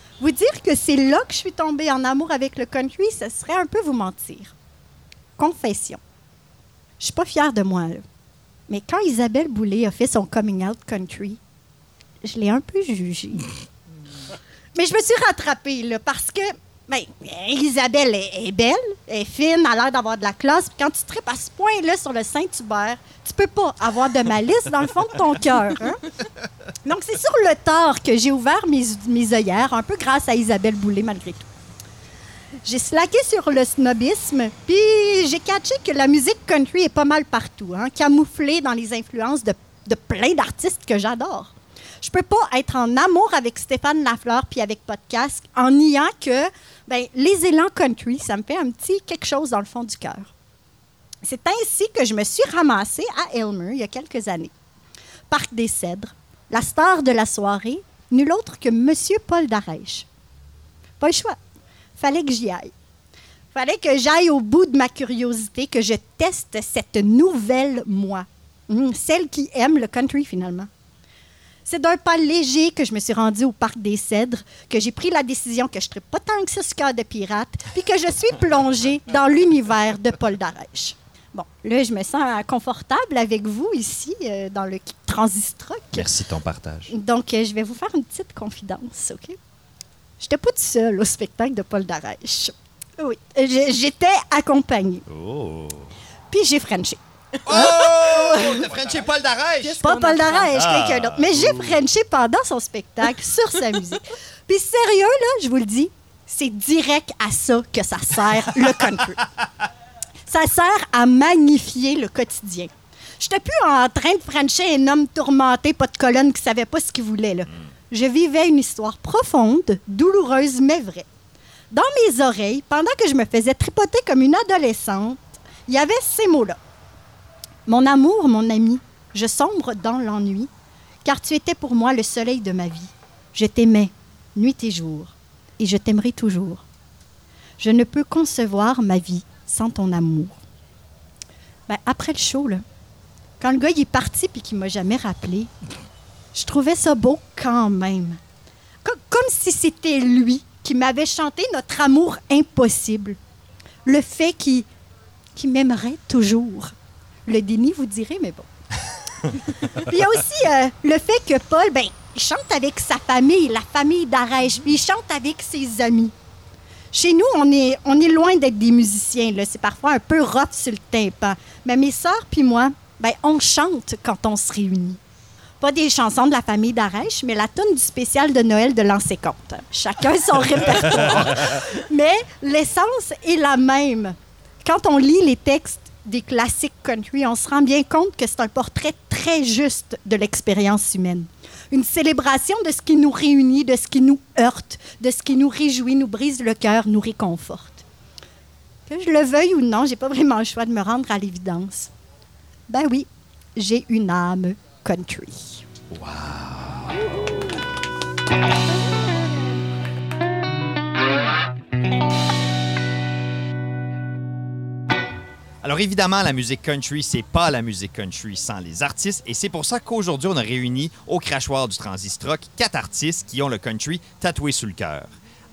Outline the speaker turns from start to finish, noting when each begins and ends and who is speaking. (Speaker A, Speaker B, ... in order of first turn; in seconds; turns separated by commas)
Speaker A: 0.2-4.5, Speaker A: 5.4-6.0, Speaker A: 7.0-8.0, Speaker A: 8.7-11.4, Speaker A: 12.2-13.5, Speaker A: 14.7-26.1, Speaker A: 26.8-31.5, Speaker A: 32.6-50.3, Speaker A: 51.2-54.5, Speaker A: 55.3-60.0, Speaker A: 61.0-61.4, Speaker A: 62.0-62.7, Speaker A: 63.5-70.7, Speaker A: 71.7-86.0, Speaker B: 85.9-86.9, Speaker A: 86.9-89.4, Speaker A: 90.2-95.0, Speaker B: 95.1-95.8, Speaker A: 96.3-98.7, Speaker B: 97.5-99.8, Speaker A: 99.8-109.2, Speaker B: 100.5-101.6, Speaker A: 110.3-121.1, Speaker A: 121.7-126.6, Speaker A: 127.7-130.5, Speaker A: 131.0-136.6, Speaker A: 137.6-140.4, Speaker A: 141.7-142.6, Speaker A: 143.4-145.5, Speaker A: 146.3-148.2, Speaker A: 148.8-153.2, Speaker A: 153.8-154.7, Speaker A: 155.3-156.7, Speaker A: 157.3-158.5, Speaker A: 159.7-166.1, Speaker A: 166.9-175.0, Speaker A: 175.6-197.8, Speaker A: 198.9-201.9, Speaker A: 202.7-205.6, Speaker B: 205.9-206.9, Speaker B: 215.6-225.1